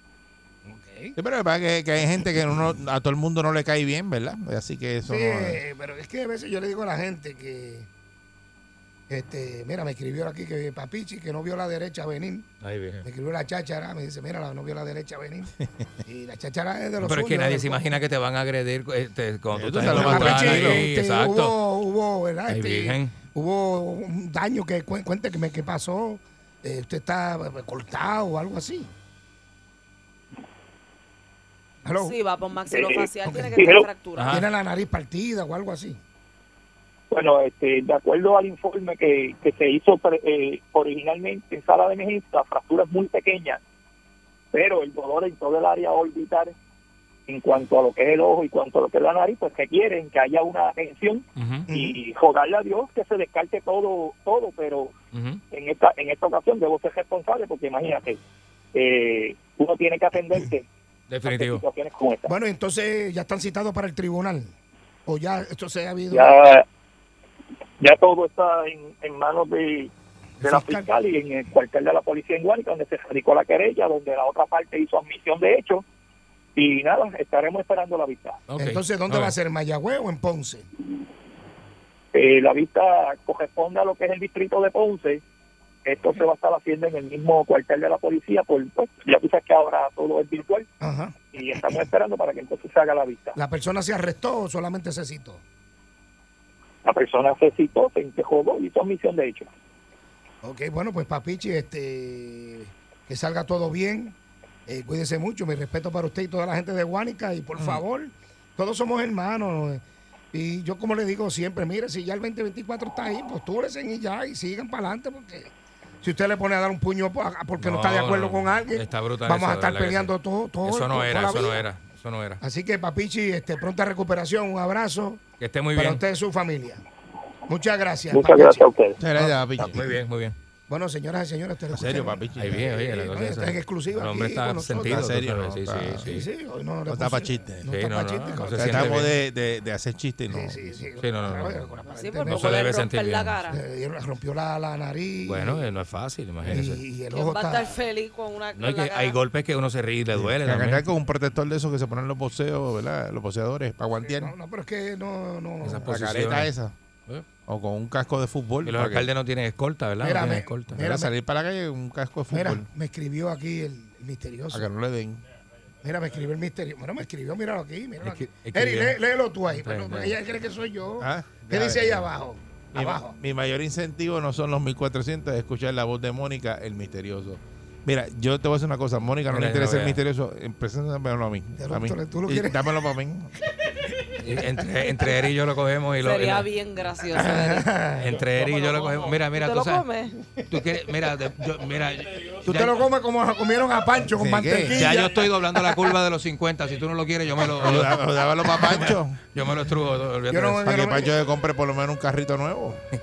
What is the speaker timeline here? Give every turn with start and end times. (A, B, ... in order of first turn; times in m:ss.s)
0:00.6-0:01.1 A
0:01.2-0:05.6 B
0:05.1-0:07.9 A
0:09.1-0:12.4 A
0:12.6-0:13.0 C
0:13.0-0:17.9 A
0:17.0-0:21.6 C
0:19.5-0:20.9 B
0:19.8-0:28.9 A
0:22.5-0:23.1 C
0:31.8-0:32.2 A
0:31.8-0:34.3 D
0:32.7-0:33.9 E
0:33.2-0:33.5 A
0:34.2-0:34.4 C
0:34.2-0:36.0 A
0:37.1-0:43.6 E
0:44.5-0:46.5 E
0:47.3-0:54.9 E
0:51.4-0:51.7 C
0:51.7-0:52.0 A
0:55.1-0:55.4 C
0:55.5-0:58.2 E
0:58.7-1:00.6 E
1:01.1-1:01.6 C
1:01.2-1:02.3 E
1:02.2-1:04.5 A
1:05.0-1:06.4 A
1:06.1-1:06.6 E
1:07.8-1:09.9 E
1:10.4-1:10.9 A
1:10.4-1:15.8 E
1:16.5-1:18.4 E
1:18.5-1:19.3 C
1:18.6-1:20.6 A
1:22.1-1:25.2 E
1:25.8-1:30.7 E
1:30.8-1:31.1 A
1:31.3-1:33.4 E
1:33.4-1:35.4 A
1:36.8-1:39.5 E
1:40.4-1:44.1 A
1:44.7-1:49.8 A
1:50.3-2:01.6 A
1:57.6-2:00.1 C
2:00.6-2:02.4 C
2:02.4-2:05.2 A
2:05.4-2:06.0 C
2:05.7-2:06.8 A
2:07.5-2:08.6 A
2:08.1-2:09.0 E
2:09.0-2:09.9 B
2:09.2-2:10.4 C
2:10.7-2:15.0 A
2:11.7-2:12.6 B
2:12.4-2:16.3 C
2:14.8-2:16.1 B
2:16.0-2:19.1 A
2:16.9-2:17.7 B
2:17.7-2:19.2 C
2:18.5-2:20.6 B
2:20.3-2:22.4 A
2:21.0-2:23.4 C
2:21.9-2:23.6 D
2:23.5-2:25.7 A
2:25.3-2:26.8 C
2:26.4-2:27.8 A
2:27.0-2:29.2 D
2:28.5-2:30.8 C
2:30.2-2:34.3 B
2:34.0-2:35.8 A
2:35.6-2:36.5 C
2:35.7-2:36.7 B
2:37.5-2:39.1 B
2:38.6-2:40.9 C
2:40.0-2:41.1 A
2:40.8-2:42.6 B
2:42.3-2:44.7 A
2:44.5-2:45.2 B
2:45.8-2:53.2 A
2:48.0-2:50.2 C
2:51.0-2:52.0 B
2:51.5-2:51.9 C
2:52.7-3:03.3 B
2:59.3-3:00.0 C
3:01.6-3:02.9 A
3:04.2-3:07.4 C
3:06.0-3:07.7 D
3:07.2-3:08.2 A
3:07.9-3:09.9 C
3:08.7-3:10.2 D
3:10.4-3:12.8 C
3:12.4-3:15.3 A
3:14.1-3:14.9 B
3:14.7-3:20.8 C
3:17.5-3:19.2 B
3:20.3-3:21.2 A
3:20.6-3:22.8 B